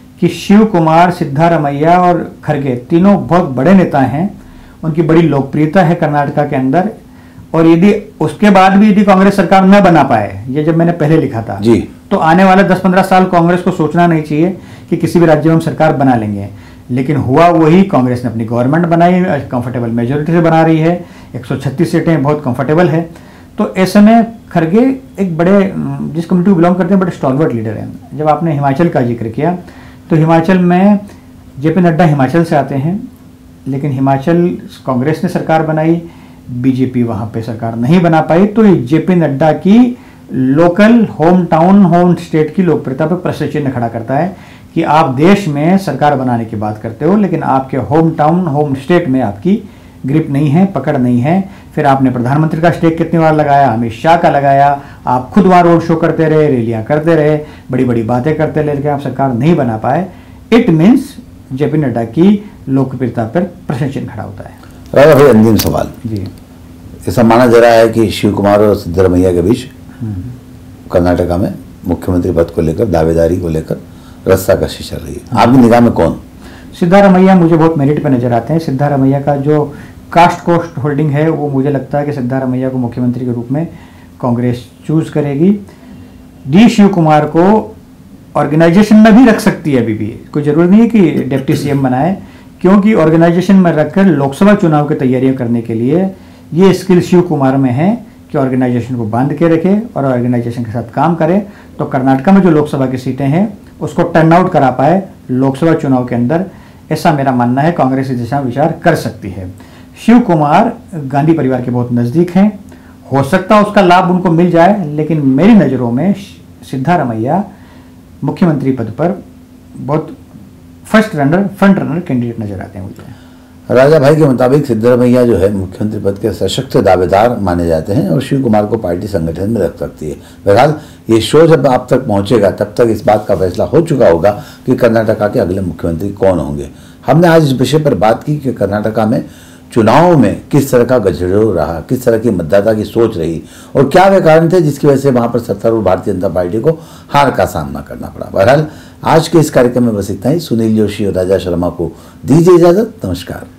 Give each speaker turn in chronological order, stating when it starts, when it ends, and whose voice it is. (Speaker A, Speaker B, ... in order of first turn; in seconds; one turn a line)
Speaker A: 0.2-4.3
Speaker A: 4.8-6.9
Speaker A: 7.5-29.6
Speaker B: 11.6-11.9
Speaker A: 30.1-31.0
Speaker A: 31.6-33.0
Speaker A: 33.7-64.6
Speaker B: 64.9-65.9
Speaker A: 66.0-66.3
Speaker B: 67.0-69.7
Speaker A: 70.0-70.3
Speaker B: 70.9-76.2
Speaker A: 76.7-83.7
Speaker A: 84.2-85.6
Speaker A: 86.5-87.7
Speaker A: 88.3-117.4
Speaker A: 118.2-119.2
Speaker A: 119.8-120.2
Speaker A: 120.8-123.1
Speaker B: 123.7-153.5